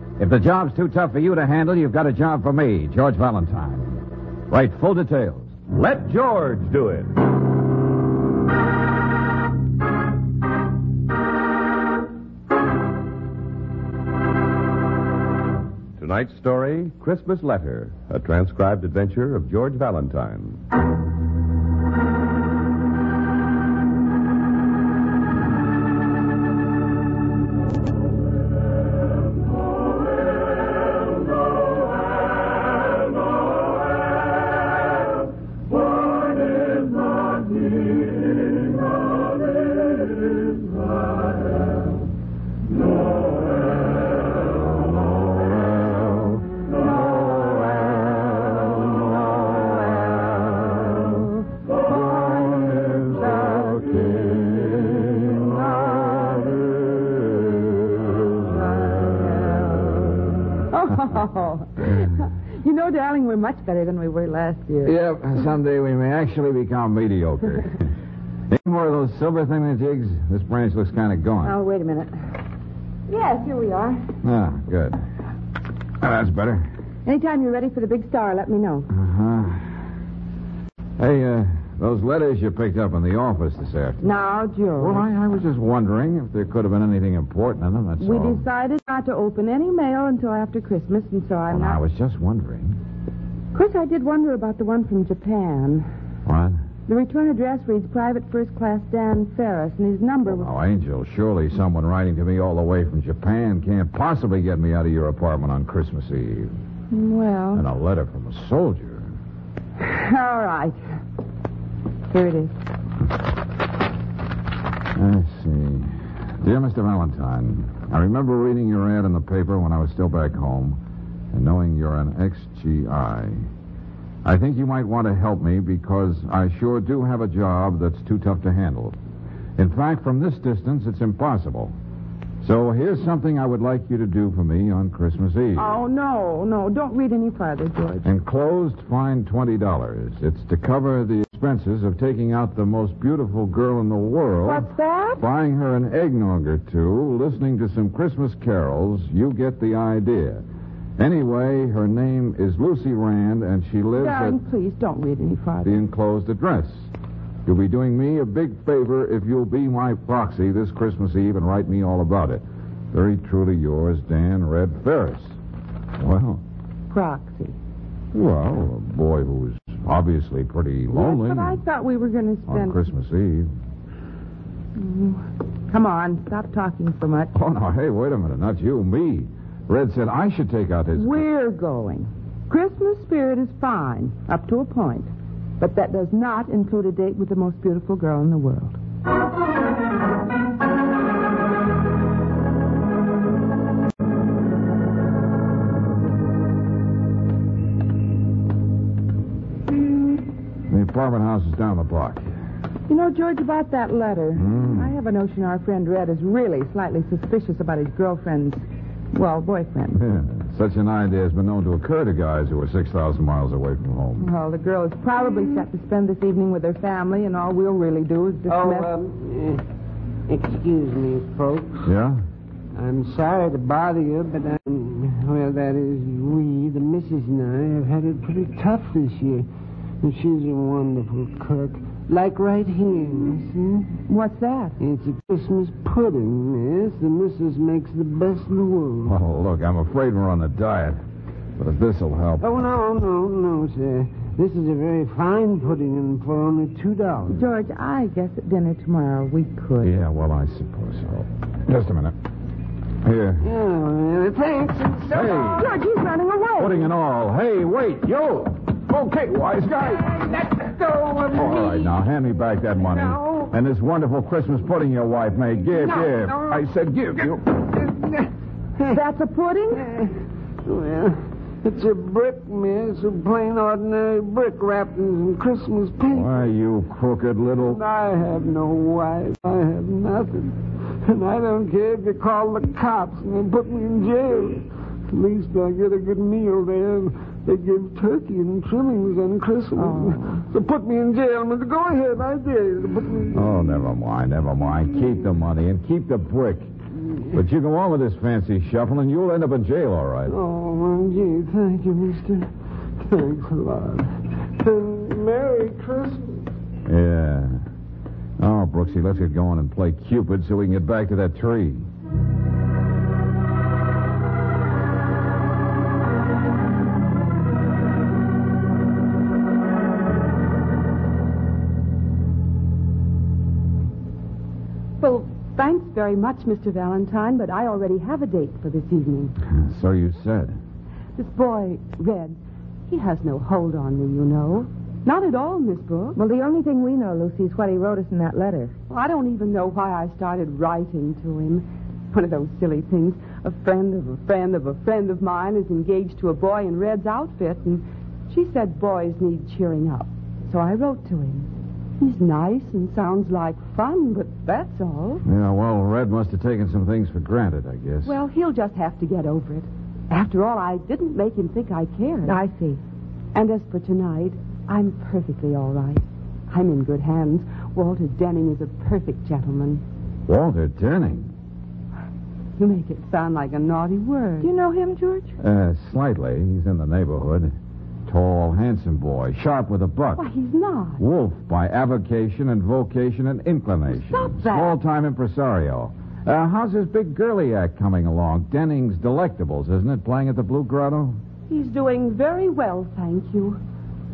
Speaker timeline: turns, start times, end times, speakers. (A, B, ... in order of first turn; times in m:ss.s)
0:00.2-0:03.9 A
0:04.5-0:05.5 A
0:05.7-0:07.1 B
0:16.0-0:20.6 B
0:45.0-0:46.4 A
0:47.2-0:48.4 A
0:52.1-0:54.0 C
0:52.9-0:55.1 A
0:55.3-0:56.4 C
0:58.5-1:00.1 C
1:00.7-1:05.0 C
1:01.8-1:02.1 A
1:04.8-1:07.8 A
1:08.5-1:11.6 A
1:11.4-1:12.1 C
1:13.1-1:14.0 C
1:14.2-1:15.0 A
1:16.0-1:16.7 A
1:17.0-1:18.9 C
1:18.9-1:19.8 A
1:21.0-1:24.1 A
1:24.0-1:25.1 C
1:24.8-1:28.4 A
1:28.0-1:31.8 C
1:31.5-1:32.8 A
1:33.5-1:35.9 C
1:36.3-1:36.6 A
1:36.9-1:40.5 C
1:40.3-1:46.5 A
1:46.9-1:47.6 C
1:47.6-1:49.1 A
1:49.8-1:50.8 C
1:52.1-1:52.5 C
1:55.0-2:00.8 A
2:01.3-2:03.4 A
2:04.2-2:09.0 A
2:09.6-2:11.7 A
2:12.4-2:15.7 A
2:15.6-2:18.0 C
2:18.0-2:30.4 A
2:24.4-2:25.2 C
2:31.0-2:34.4 A
2:34.0-2:35.8 C
2:35.6-2:36.9 A
2:37.4-2:45.4 A
2:46.0-2:46.4 A
2:46.9-2:47.6 C
2:48.1-2:51.6 A
2:50.9-2:52.8 C
2:52.5-2:53.5 A
2:54.8-2:57.3 C
2:57.3-3:01.2 A
3:01.0-3:08.8 C
3:20.7-3:22.2 A
3:22.9-3:30.0 C
3:24.4-3:24.9 A
3:29.9-3:34.3 A
3:34.2-3:38.9 C
3:38.5-3:39.6 D
3:40.3-3:41.8 D
3:41.8-3:42.2 A
3:42.8-3:49.5 D
3:50.0-3:53.9 D
3:54.1-3:54.8 C
3:54.8-3:59.2 D
3:59.0-4:01.0 A
4:01.6-4:02.5 A
4:02.4-4:07.4 D
4:07.3-4:09.9 C
4:09.8-4:12.2 A
4:13.0-4:13.5 A
4:13.4-4:15.6 D
4:15.1-4:15.7 A
4:15.6-4:16.9 C
4:16.6-4:20.1 A
4:19.9-4:22.0 D
4:21.3-4:27.5 A
4:22.8-4:23.5 D
4:25.7-4:26.7 D
4:27.7-4:29.0 D
4:28.9-4:29.8 C
4:29.7-4:30.1 D
4:30.6-4:36.3 D
4:36.1-4:37.8 A
4:37.6-4:53.4 D
4:49.8-4:50.4 C
4:53.3-4:56.7 A
4:57.3-5:00.4 A
5:00.3-5:06.4 D
5:06.9-5:07.6 A
5:08.4-5:11.9 A
5:25.0-5:29.4 E
5:29.5-5:30.6 A
5:31.2-5:36.2 E
5:36.2-5:38.7 C
5:38.9-5:55.2 E
5:55.2-5:58.1 A
5:58.0-6:02.4 E
6:02.3-6:02.8 C
6:03.3-6:09.8 E
6:10.3-6:11.3 A
6:12.6-6:14.5 E
6:14.4-6:15.3 C
6:15.4-6:17.5 A
6:18.1-6:20.2 A
6:20.2-6:21.0 E
6:21.0-6:31.2 A
6:24.0-6:24.8 E
6:31.5-6:33.6 E